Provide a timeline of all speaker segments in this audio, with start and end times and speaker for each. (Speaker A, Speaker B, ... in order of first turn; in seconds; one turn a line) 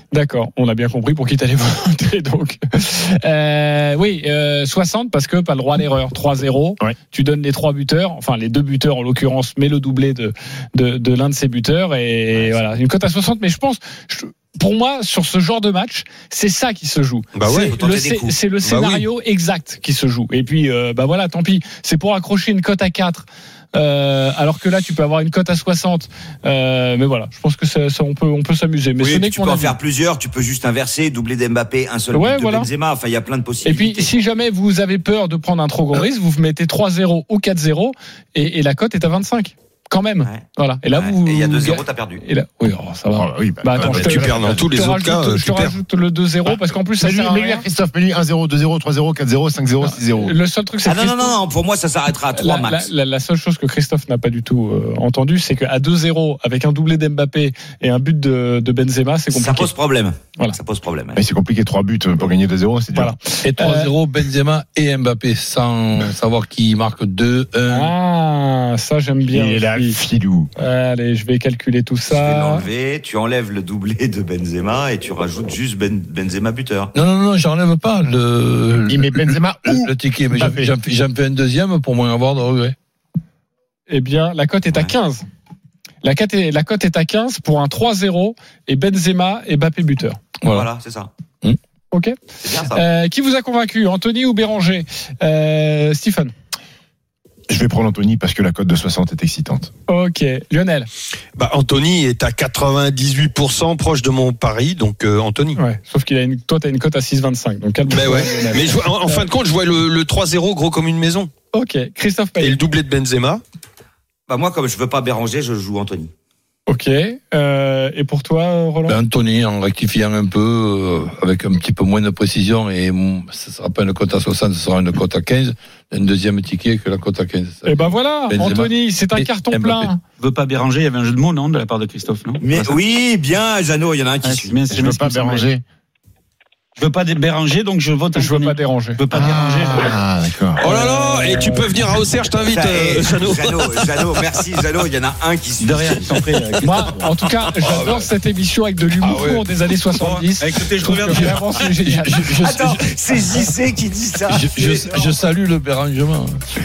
Speaker A: 0.1-29.8
Speaker B: 17.4-17.8
Speaker C: 17.7-18.4
Speaker B: 18.6-19.0
Speaker C: 29.0-34.1
Speaker A: 32.1-32.7
Speaker A: 33.6-47.6
Speaker C: 40.2-42.2
Speaker D: 43.1-44.6
Speaker B: 43.8-45.8
Speaker D: 46.5-50.4
Speaker A: 49.9-51.4
Speaker C: 50.8-52.9
Speaker A: 52.4-59.7
Speaker C: 59.3-61.2
Speaker D: 61.2-63.2
Speaker A: 62.9-63.9
Speaker E: 63.4-67.9
Speaker A: 67.7-70.0
Speaker D: 69.3-70.5
Speaker A: 70.6-72.7
Speaker C: 72.1-76.9
Speaker E: 76.9-82.8
Speaker D: 78.9-80.7
Speaker A: 83.9-85.2
Speaker A: 86.0-90.2
Speaker C: 90.5-91.1
Speaker C: 92.4-92.8
Speaker A: 92.7-96.3
Speaker D: 97.5-99.7
Speaker A: 99.9-100.9
Speaker B: 101.4-105.6
Speaker A: 105.6-109.3
Speaker B: 107.9-111.3
Speaker A: 111.5-112.6
Speaker B: 112.4-113.4
Speaker C: 114.3-116.1
Speaker A: 116.7-119.0
Speaker E: 118.9-129.9
Speaker A: 127.7-130.0
Speaker F: 130.2-132.8
Speaker C: 132.4-134.6
Speaker F: 134.2-135.5
Speaker D: 134.7-135.6
Speaker F: 136.8-140.0
Speaker A: 138.2-139.0
Speaker D: 139.1-140.6
Speaker B: 140.6-144.2
Speaker A: 140.6-141.7
Speaker C: 142.5-146.1
Speaker F: 145.6-146.9
Speaker A: 146.6-152.3
Speaker E: 149.0-149.5
Speaker F: 150.0-151.6
Speaker E: 151.1-152.9
Speaker C: 152.4-155.2
Speaker E: 154.3-156.4